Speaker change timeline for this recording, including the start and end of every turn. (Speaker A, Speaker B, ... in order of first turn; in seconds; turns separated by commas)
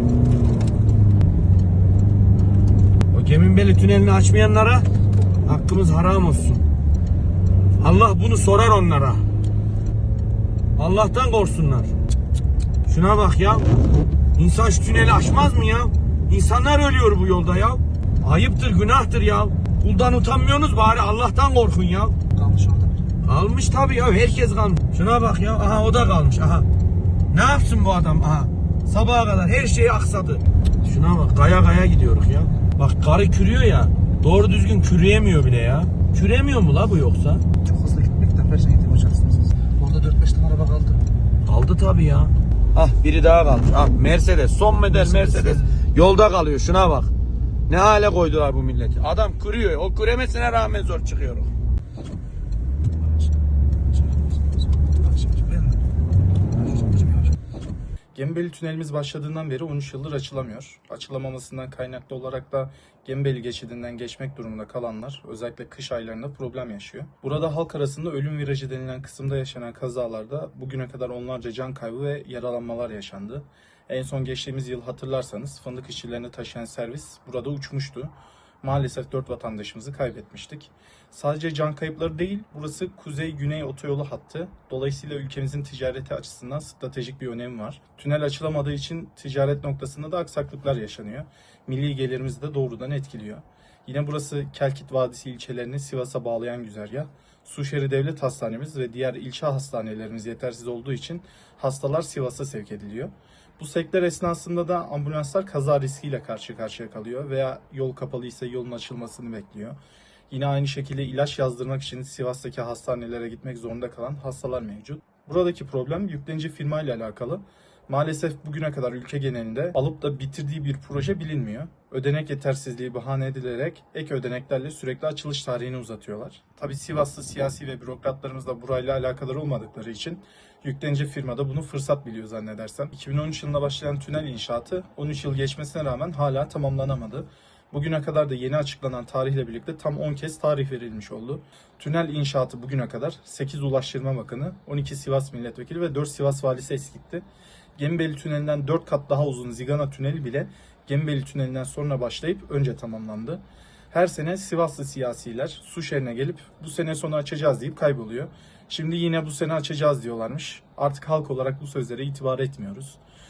Speaker A: 3.1-4.9, Speaker A: 5.4-6.6, Speaker A: 7.8-9.2, Speaker A: 10.8-11.9, Speaker A: 12.9-13.7, Speaker A: 14.3-22.2, Speaker B: 22.4-22.9, Speaker A: 23.2-26.7, Speaker A: 27.3-37.5, Speaker B: 37.6-41.0, Speaker A: 41.5-47.1, Speaker B: 45.1-45.6, Speaker A: 47.7-51.5, Speaker B: 53.9-55.8, Speaker B: 56.6-57.4, Speaker C: 58.1-109.8, Speaker C: 110.3-147.2, Speaker C: 147.8-163.0